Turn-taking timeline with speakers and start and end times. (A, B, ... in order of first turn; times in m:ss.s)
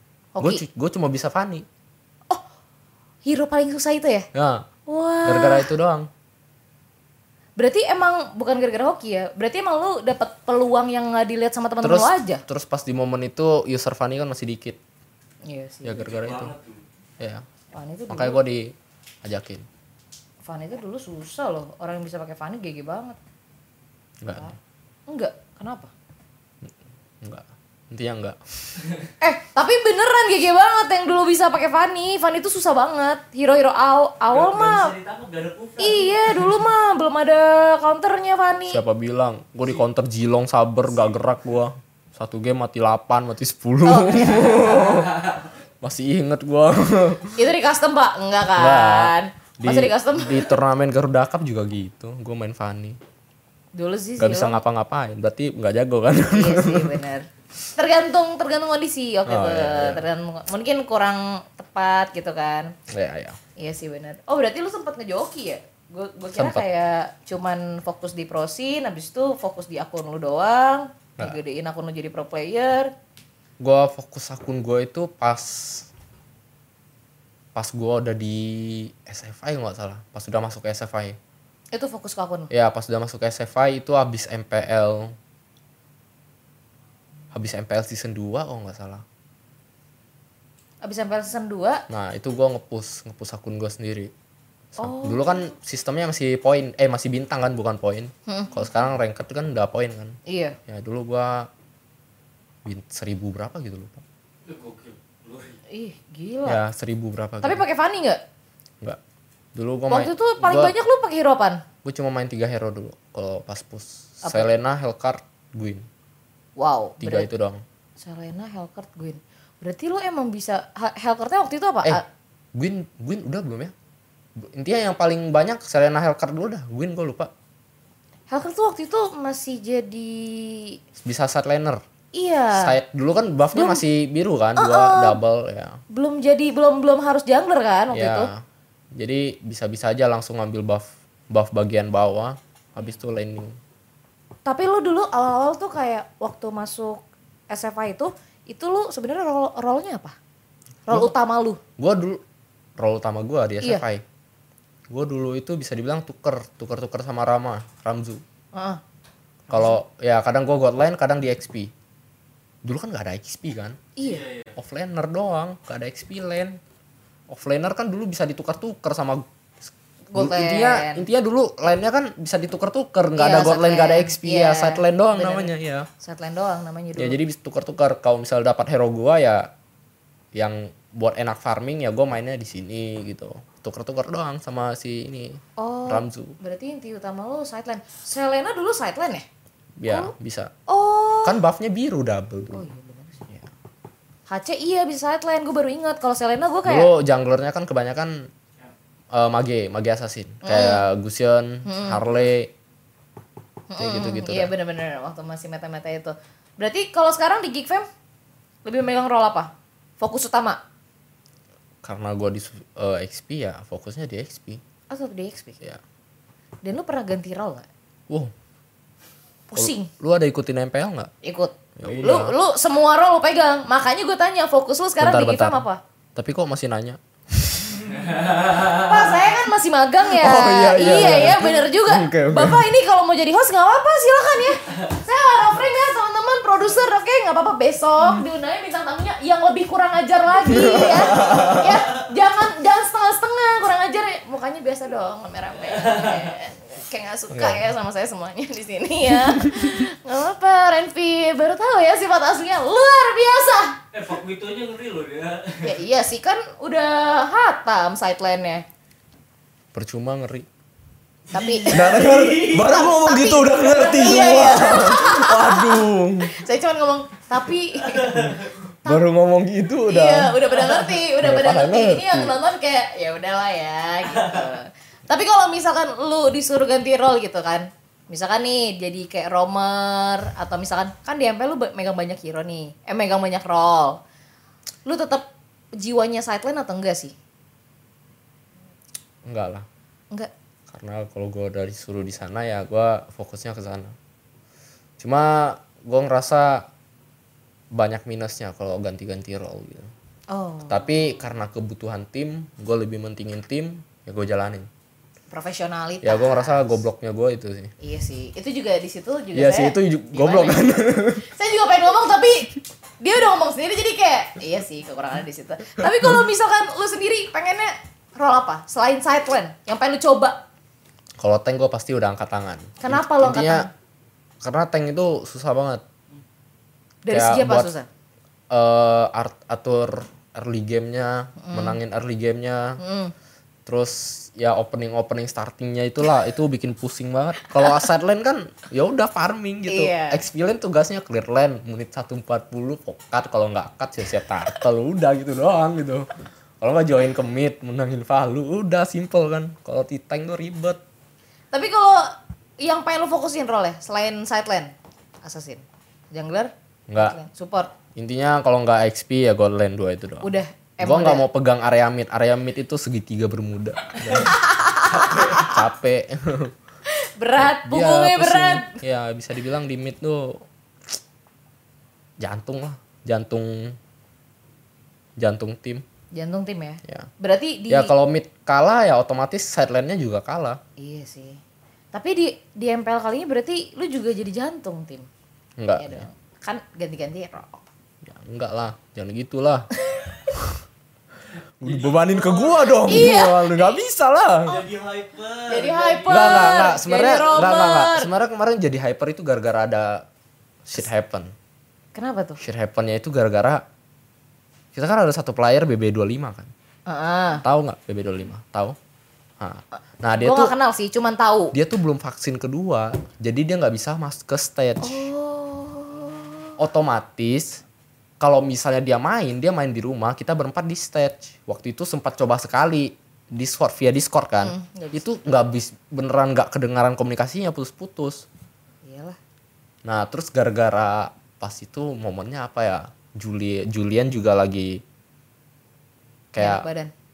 0:00.3-0:00.6 A
0:00.4-0:01.6 B
0:03.2-0:04.3 A
0:04.3-0:04.7 B
0:04.9-0:05.7 A
0:05.2-0:06.1 B
0:07.6-0:12.4 A
0:11.8-0:14.8 B
0:15.4-0:16.0 A
0:15.8-0:16.5 B
0:16.0-0:16.8 C
0:17.2-0:17.4 B
0:17.7-0:18.4 A
0:18.1-0:19.6 B
0:20.4-0:23.2 A
0:24.2-0:24.5 B
0:25.1-0:25.9 A
0:26.6-0:28.8 B
0:29.2-0:34.9 A
0:34.3-0:36.5 C
0:35.8-0:38.8 A
0:38.7-0:45.3 B
0:43.8-0:44.6 A
0:44.8-0:45.4 C
0:45.8-0:47.5 B
0:47.4-0:50.5 A
0:48.5-0:53.0 B
0:53.7-0:54.6 A
0:54.2-0:57.0 B
0:56.3-1:02.7 A
0:59.2-1:00.1 B
1:02.9-1:03.4 B
1:03.6-1:12.9 A
1:06.3-1:06.7 B
1:13.6-1:15.9 B
1:17.5-1:21.2 B
1:21.7-1:22.5 A
1:22.5-1:25.1 B
1:27.3-1:29.0 B
1:30.8-1:31.8 A
1:31.9-1:34.1 B
1:34.7-1:41.5 B
1:34.8-1:35.5 A
1:38.3-1:38.7 A
1:40.2-1:40.6 A
1:42.6-1:44.0 B
1:44.4-1:45.6 C
1:45.7-1:46.6 A
1:46.4-1:47.6 B
1:47.4-1:48.2 A
1:49.5-1:50.7 B
1:49.9-1:51.6 A
1:51.8-1:55.9 B
1:54.2-1:54.6 A
1:56.6-1:57.3 A
1:57.0-1:57.6 B
1:58.0-2:02.0 A
2:02.5-2:03.7 B
2:04.4-2:07.3 B
2:08.3-2:10.8 A
2:11.0-2:11.8 B
2:12.1-2:12.8 A
2:12.5-2:15.8 B
2:13.5-2:13.8 A
2:14.6-2:15.2 A
2:15.9-2:18.3 A
2:17.9-2:23.6 B
2:24.4-2:30.2 A
2:30.9-2:31.6 A
2:30.9-2:31.1 B
2:31.8-2:32.2 B
2:32.8-2:34.0 B
2:34.9-2:38.2 B
2:38.5-2:38.8 A
2:39.5-2:41.7 B
2:39.5-2:39.8 A
2:42.6-2:43.8 B
2:44.0-2:44.2 A
2:44.0-2:44.5 C
2:44.5-2:46.6 B
2:47.3-2:55.9 B
2:50.1-2:51.0 A
2:53.2-2:57.2 A
2:57.0-2:59.5 B
3:00.3-3:06.4 B
3:05.6-3:09.2 A
3:09.8-3:10.5 B
3:09.9-3:10.1 A
3:10.7-3:11.4 A
3:11.2-3:12.7 B
3:12.5-3:13.2 A
3:14.3-3:16.9 A
3:16.6-3:18.3 B
3:19.1-3:22.5 B
3:20.4-3:20.8 A
3:21.6-3:22.0 A
3:23.7-3:27.9 A
3:23.8-3:24.5 B
3:28.6-3:30.6 A
3:31.8-3:34.6 B
3:34.9-3:35.6 A
3:36.6-3:37.7 A
3:39.5-3:39.9 A
3:39.5-3:41.1 B
3:41.2-3:45.8 A
3:41.8-3:42.3 B
3:45.0-3:45.6 B
3:46.2-3:47.8 B
3:47.9-3:49.0 C
3:48.6-4:13.8 A
3:50.1-3:52.6 B
4:00.4-4:01.8 B
4:05.7-4:06.3 C
4:07.3-4:07.6 B
4:09.2-4:09.7 B
4:13.9-4:15.7 C
4:15.6-4:18.6 A
4:19.7-4:20.5 B
4:21.3-4:29.0 A
4:21.3-4:22.8 C
4:21.7-4:26.4 B
4:27.9-4:28.4 C
4:28.8-4:30.5 B
4:29.8-4:44.0 A
4:31.1-4:32.4 B
4:44.8-4:47.1 A
4:49.2-4:49.7 B
4:50.7-4:54.0 B
4:55.0-4:56.7 B
4:57.7-4:59.9 B
5:00.3-5:00.9 A
5:00.7-5:04.7 B
5:05.3-5:06.7 A
5:06.0-5:07.7 B
5:07.8-5:20.4 A
5:09.3-5:11.3 B
5:21.2-5:23.7 B
5:22.8-5:23.7 A
5:24.4-5:25.8 B
5:27.0-5:27.9 A
5:27.1-5:27.7 B
5:28.5-5:32.8 B
5:31.4-5:31.8 A
5:32.8-5:33.1 A
5:33.6-5:46.1 B
5:37.5-5:37.8 A
5:39.7-5:40.2 A
5:46.6-5:50.8 B
5:51.5-5:54.7 A
5:55.2-5:57.7 A
5:56.9-5:57.2 B
5:57.9-6:04.4 B
6:00.2-6:01.2 A
6:04.2-6:05.6 A
6:05.3-6:06.5 B
6:06.9-6:08.8 A
6:07.5-6:10.4 B
6:12.2-6:13.8 B
6:15.2-6:15.8 B
6:16.1-6:17.9 A
6:17.7-6:20.6 B
6:20.8-6:21.4 A
6:21.9-6:25.1 A
6:25.6-6:26.0 B
6:25.8-6:27.6 A
6:28.0-6:29.7 B
6:29.8-6:30.1 A
6:30.3-6:30.6 B
6:31.6-6:34.6 B
6:31.6-6:32.8 C
6:32.8-6:33.8 A
6:34.4-6:36.5 C
6:35.5-6:38.1 A
6:36.1-6:40.0 B
6:40.6-6:41.3 B
6:41.9-6:42.4 A
6:42.4-6:43.6 B
6:44.7-6:46.5 B
6:46.9-6:47.4 A
6:47.4-6:48.8 B
6:49.4-6:50.5 B
6:50.2-6:51.5 A
6:51.5-6:55.1 B
6:54.8-6:56.6 A
6:56.6-6:57.6 B
6:58.2-7:08.2 B
7:04.4-7:05.1 A
7:08.8-7:09.2 A
7:09.8-7:14.8 B
7:16.3-7:16.7 B
7:16.4-7:16.9 A